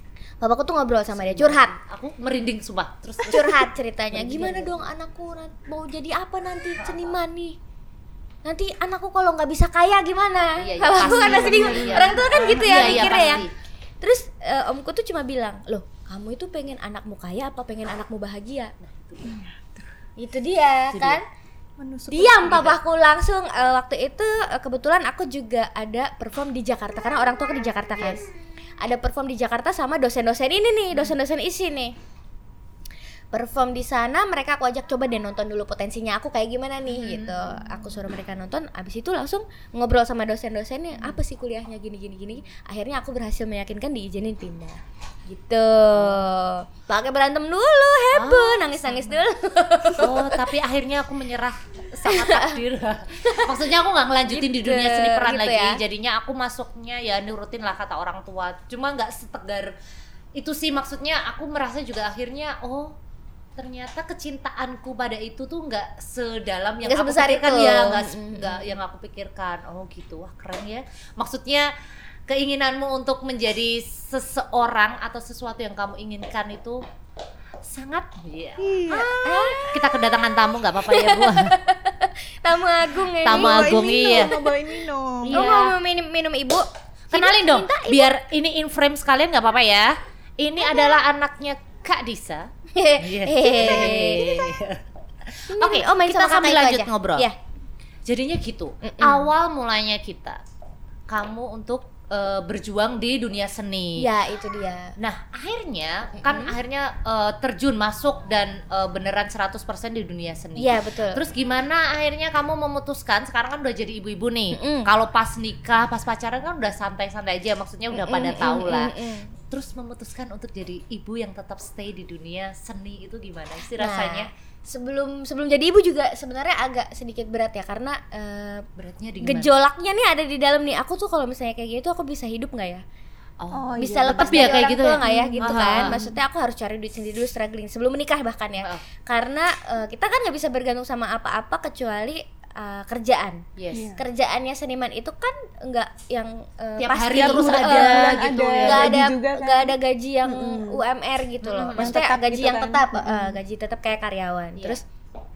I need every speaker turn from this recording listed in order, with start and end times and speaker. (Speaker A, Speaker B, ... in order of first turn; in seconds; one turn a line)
Speaker A: 0.4-1.8
Speaker B: 1.1-4.8
Speaker A: 3.2-7.6
Speaker A: 8.4-13.4
Speaker B: 10.6-13.5
Speaker C: 11.0-13.4
Speaker A: 14.0-18.7
Speaker B: 18.8-19.3
Speaker C: 19.2-19.8
Speaker A: 20.2-21.2
Speaker B: 20.9-21.2
Speaker C: 21.8-22.6
Speaker A: 22.1-28.2
Speaker B: 22.4-22.8
Speaker A: 28.8-31.9
Speaker A: 33.3-50.5
Speaker B: 36.9-37.9
Speaker B: 45.9-46.2
Speaker B: 48.1-49.2
Speaker B: 50.0-59.7
Speaker A: 52.1-52.6
Speaker A: 53.2-53.6
Speaker A: 54.3-55.8
Speaker B: 60.4-63.0
Speaker B: 63.6-71.7
Speaker A: 66.8-68.6
Speaker B: 72.3-76.8
Speaker B: 77.6-78.6
Speaker C: 78.6-79.6
Speaker A: 78.9-79.9
Speaker B: 79.6-81.6
Speaker A: 80.9-83.8
Speaker B: 83.2-84.4
Speaker C: 83.3-85.5
Speaker B: 85.2-85.8
Speaker A: 85.3-88.2
Speaker B: 87.1-97.3
Speaker A: 92.7-94.5
Speaker A: 95.5-97.4
Speaker B: 98.0-100.4
Speaker A: 98.8-99.3
Speaker B: 101.1-104.1
Speaker A: 104.0-105.0
Speaker B: 105.0-118.9
Speaker A: 106.2-106.5
Speaker A: 110.6-111.2
Speaker A: 114.5-114.9
Speaker A: 117.9-119.4
Speaker B: 119.5-124.3
Speaker A: 123.8-128.7
Speaker B: 128.8-129.5
Speaker A: 129.2-132.8
Speaker B: 133.4-136.0
Speaker C: 133.5-136.2
Speaker A: 133.8-143.4
Speaker B: 138.6-138.8
Speaker B: 143.6-143.9
Speaker C: 143.7-144.0
Speaker A: 144.0-154.8
Speaker B: 146.8-149.0
Speaker C: 147.2-150.8
Speaker B: 151.4-151.9
Speaker C: 151.8-153.4